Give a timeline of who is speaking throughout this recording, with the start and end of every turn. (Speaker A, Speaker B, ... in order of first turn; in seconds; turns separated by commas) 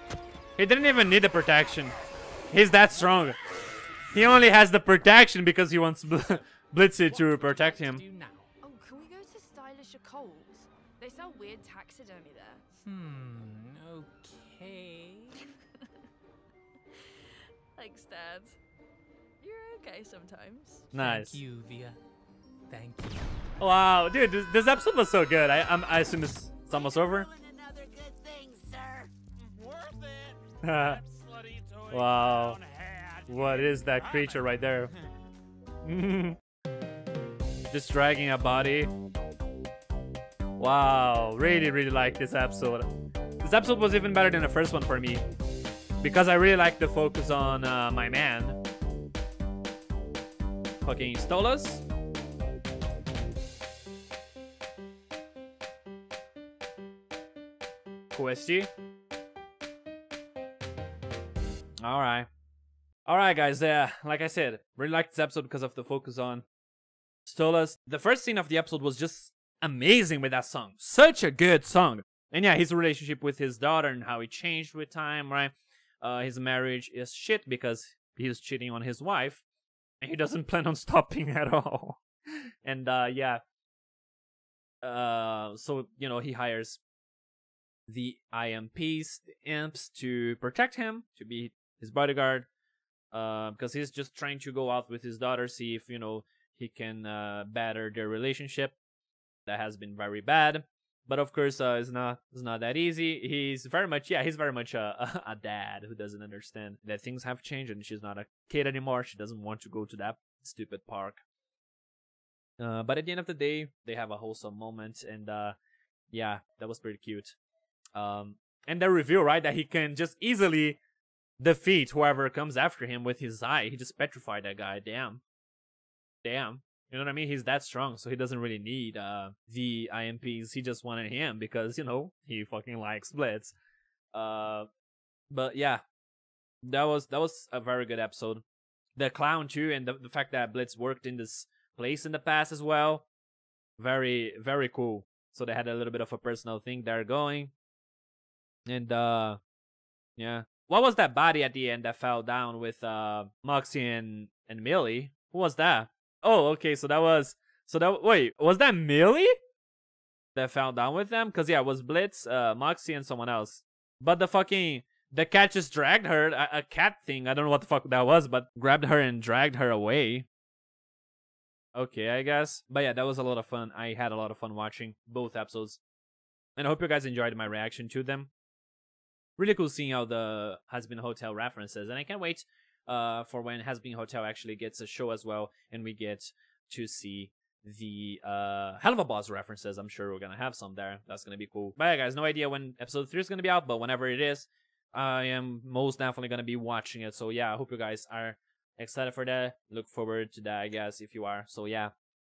Speaker A: 0.6-1.9, Speaker A: 2.5-3.4, Speaker A: 4.1-8.0, Speaker B: 7.1-8.5, Speaker C: 8.6-12.6, Speaker B: 12.8-15.5, Speaker C: 17.8-18.6, Speaker C: 19.4-20.9, Speaker A: 20.9-21.4, Speaker B: 20.9-22.0, Speaker B: 22.7-23.4, Speaker A: 23.6-27.3, Speaker D: 26.7-29.1, Speaker E: 29.4-35.1, Speaker A: 30.6-31.0, Speaker A: 31.9-32.6, Speaker A: 33.3-34.9, Speaker A: 35.8-36.4, Speaker A: 37.7-38.9, Speaker A: 40.6-42.9, Speaker A: 43.4-45.2, Speaker A: 46.0-48.6, Speaker A: 50.8-51.8, Speaker A: 58.1-58.7, Speaker A: 61.8-62.3, Speaker A: 63.1-66.5, Speaker A: 67.3-79.4, Speaker A: 80.0-83.4, Speaker A: 84.8-86.8, Speaker A: 87.9-92.5, Speaker A: 93.1-98.8, Speaker A: 99.5-111.2, Speaker A: 112.6-115.6, Speaker A: 116.1-117.4, Speaker A: 118.0-120.8, Speaker A: 121.4-125.2, Speaker A: 126.2-133.6, Speaker A: 134.1-134.7, Speaker A: 135.3-135.8, Speaker A: 136.6-138.4, Speaker A: 139.0-143.1, Speaker A: 143.8-147.5, Speaker A: 148.7-149.4, Speaker A: 150.2-159.4, Speaker A: 160.3-170.3, Speaker A: 171.8-175.8, Speaker A: 176.6-178.3, Speaker A: 179.4-201.9